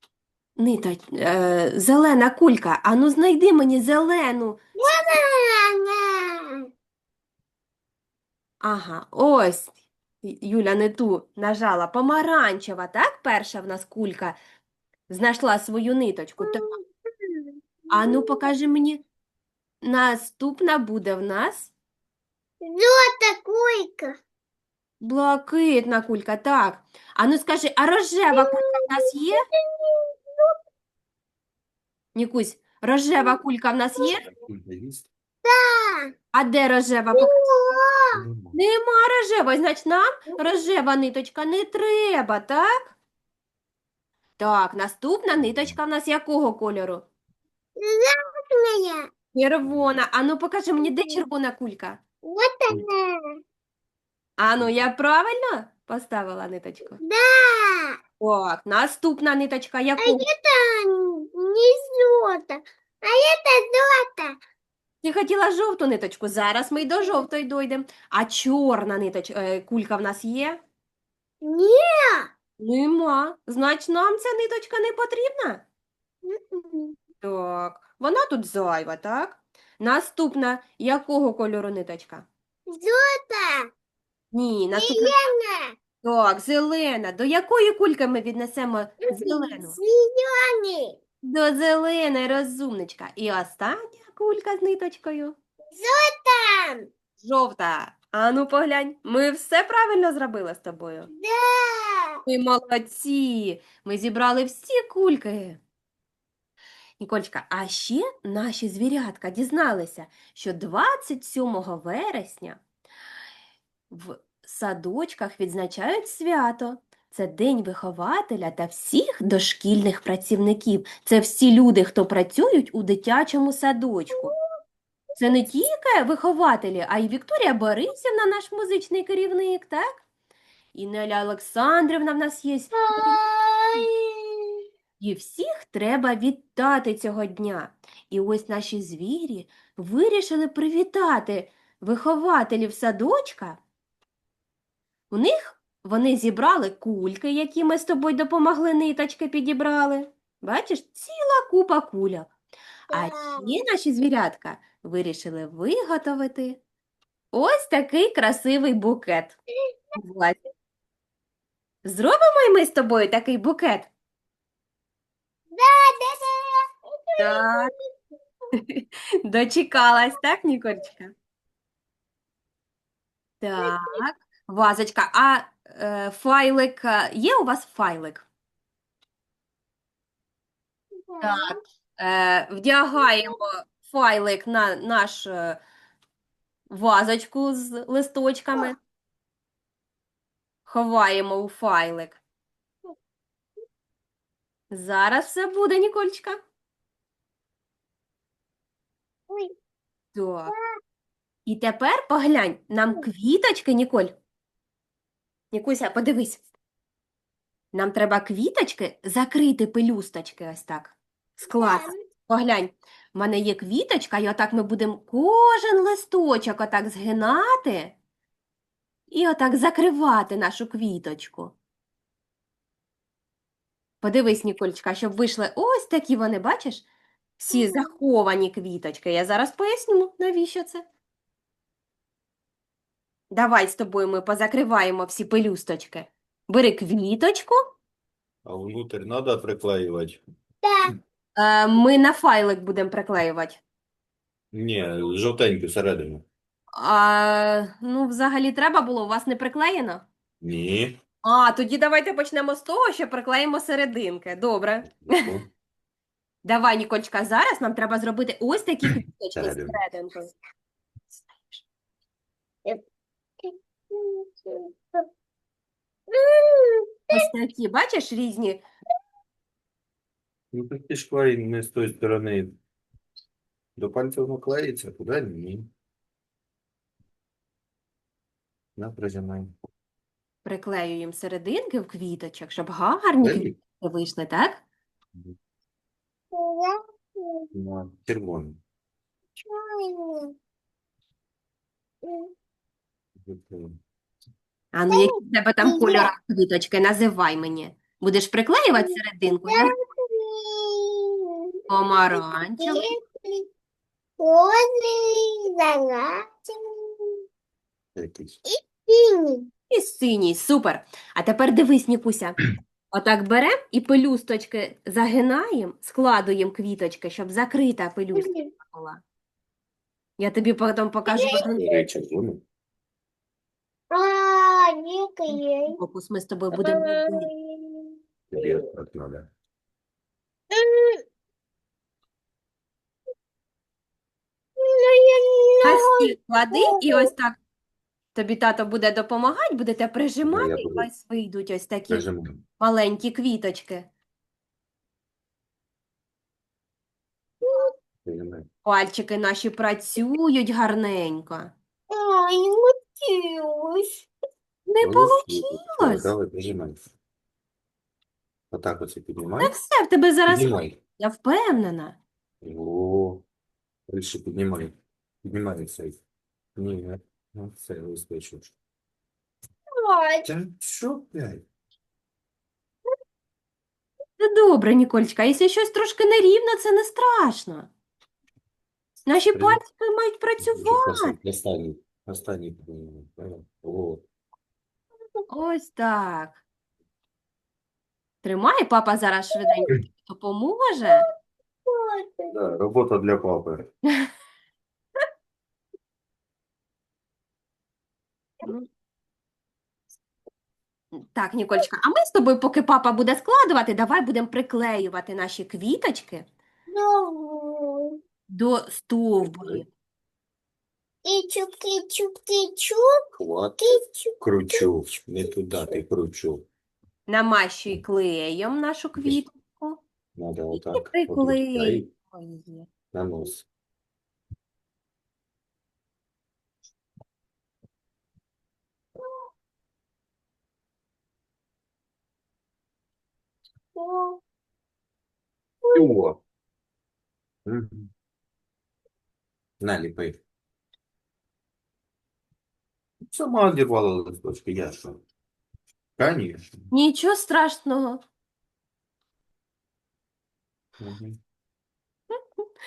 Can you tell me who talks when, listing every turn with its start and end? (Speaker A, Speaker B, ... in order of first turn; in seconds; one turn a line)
Speaker A: 0.6-5.1
Speaker B: 4.8-6.6
Speaker A: 8.6-14.3
Speaker A: 15.1-16.6
Speaker B: 16.4-18.4
Speaker A: 17.9-19.0
Speaker A: 19.8-21.7
Speaker B: 22.6-24.1
Speaker A: 25.0-29.4
Speaker B: 28.3-30.5
Speaker A: 32.1-34.3
Speaker C: 34.2-35.1
Speaker B: 35.4-36.1
Speaker A: 36.3-37.4
Speaker B: 37.1-38.2
Speaker C: 38.1-38.6
Speaker A: 38.5-42.9
Speaker A: 44.4-47.0
Speaker C: 45.4-45.8
Speaker B: 47.8-49.1
Speaker A: 49.3-52.0
Speaker C: 49.6-49.9
Speaker B: 50.8-51.2
Speaker B: 52.2-53.2
Speaker A: 54.4-57.0
Speaker C: 54.6-54.9
Speaker B: 57.0-58.0
Speaker A: 58.2-60.2
Speaker B: 60.0-64.4
Speaker A: 65.0-70.6
Speaker B: 71.4-72.3
Speaker A: 72.6-75.6
Speaker B: 76.2-77.0
Speaker A: 77.2-82.3
Speaker B: 82.7-83.7
Speaker A: 84.3-85.2
Speaker B: 84.7-85.8
Speaker A: 86.0-89.8
Speaker B: 89.1-91.0
Speaker A: 91.2-95.3
Speaker B: 95.7-96.8
Speaker A: 97.2-101.1
Speaker B: 101.1-102.2
Speaker A: 102.2-105.6
Speaker A: 107.0-112.6
Speaker A: 113.9-124.3
Speaker A: 125.2-130.0
Speaker A: 130.7-133.2
Speaker B: 132.7-134.5
Speaker A: 135.0-143.6
Speaker A: 145.1-152.3
Speaker B: 152.9-153.5
Speaker A: 152.9-156.6
Speaker A: 157.3-159.4
Speaker A: 160.0-160.4
Speaker A: 161.8-163.9
Speaker B: 165.5-167.7
Speaker A: 167.2-167.7
Speaker A: 168.5-171.1
Speaker A: 173.4-178.2
Speaker B: 181.1-181.6
Speaker A: 181.2-185.6
Speaker B: 183.0-183.4
Speaker A: 186.7-188.8
Speaker A: 190.7-192.2
Speaker A: 194.7-196.4
Speaker B: 199.3-199.5
Speaker A: 200.1-200.5
Speaker B: 200.5-200.8
Speaker A: 201.5-204.1
Speaker A: 205.5-206.4
Speaker A: 207.7-217.9
Speaker B: 211.5-212.0
Speaker A: 219.1-221.5
Speaker A: 224.0-226.9
Speaker A: 227.4-230.8
Speaker A: 233.3-237.6
Speaker C: 238.4-240.2
Speaker B: 240.6-240.9
Speaker A: 241.3-243.6
Speaker C: 244.5-246.2
Speaker A: 246.8-250.0
Speaker C: 250.4-251.0
Speaker A: 251.2-255.2
Speaker C: 255.0-255.5
Speaker A: 256.4-260.3
Speaker C: 259.3-259.8
Speaker A: 261.2-261.6
Speaker B: 263.4-265.0
Speaker B: 266.1-267.3
Speaker A: 267.1-268.6
Speaker C: 270.5-272.6
Speaker C: 273.8-275.7
Speaker C: 278.8-279.5
Speaker A: 280.4-284.6
Speaker C: 283.2-283.6
Speaker B: 286.3-287.5
Speaker C: 287.5-288.6
Speaker B: 289.4-290.3
Speaker B: 292.0-292.3
Speaker C: 293.2-293.8
Speaker A: 294.7-299.7
Speaker B: 294.9-296.1
Speaker B: 298.8-301.3
Speaker A: 301.7-302.8
Speaker B: 302.1-303.5
Speaker B: 304.2-307.2
Speaker C: 307.9-308.4
Speaker B: 308.4-309.5
Speaker A: 309.7-312.4
Speaker A: 312.9-319.0
Speaker B: 318.1-318.5
Speaker A: 320.2-321.6
Speaker B: 321.1-321.4
Speaker C: 321.5-322.4
Speaker B: 323.9-325.8
Speaker A: 325.8-327.3
Speaker B: 326.5-328.6
Speaker C: 328.3-329.3
Speaker B: 330.5-331.0
Speaker B: 334.6-337.1
Speaker A: 335.6-337.4
Speaker A: 338.1-342.1
Speaker C: 340.2-340.9
Speaker C: 341.9-342.4
Speaker A: 342.6-343.9
Speaker B: 347.4-347.7
Speaker C: 348.0-348.5
Speaker A: 348.6-351.5
Speaker B: 351.9-354.1
Speaker A: 354.7-356.1
Speaker C: 354.8-356.8
Speaker C: 358.5-359.5
Speaker A: 359.4-362.0
Speaker C: 360.3-360.8
Speaker C: 362.4-363.2
Speaker C: 363.9-366.0
Speaker C: 366.6-368.5
Speaker B: 369.8-370.3
Speaker C: 370.2-371.4
Speaker A: 374.2-377.7
Speaker A: 379.1-381.1
Speaker C: 379.3-379.6
Speaker C: 380.4-384.0
Speaker A: 385.3-386.4
Speaker A: 388.2-391.0
Speaker B: 391.6-392.3
Speaker C: 392.3-393.7
Speaker A: 401.1-406.3
Speaker B: 406.7-407.9
Speaker A: 408.3-409.7
Speaker B: 411.0-412.9
Speaker C: 413.2-413.6
Speaker B: 413.6-414.7
Speaker C: 414.2-416.4
Speaker A: 417.1-419.8
Speaker C: 420.1-421.9
Speaker A: 420.5-422.7
Speaker C: 422.9-423.5
Speaker B: 433.8-434.2
Speaker B: 435.6-436.0
Speaker C: 435.7-436.2
Speaker C: 437.4-437.9
Speaker C: 439.6-440.2
Speaker C: 443.1-445.0
Speaker C: 446.0-446.6
Speaker A: 446.7-448.0
Speaker C: 450.8-451.2
Speaker A: 452.1-452.4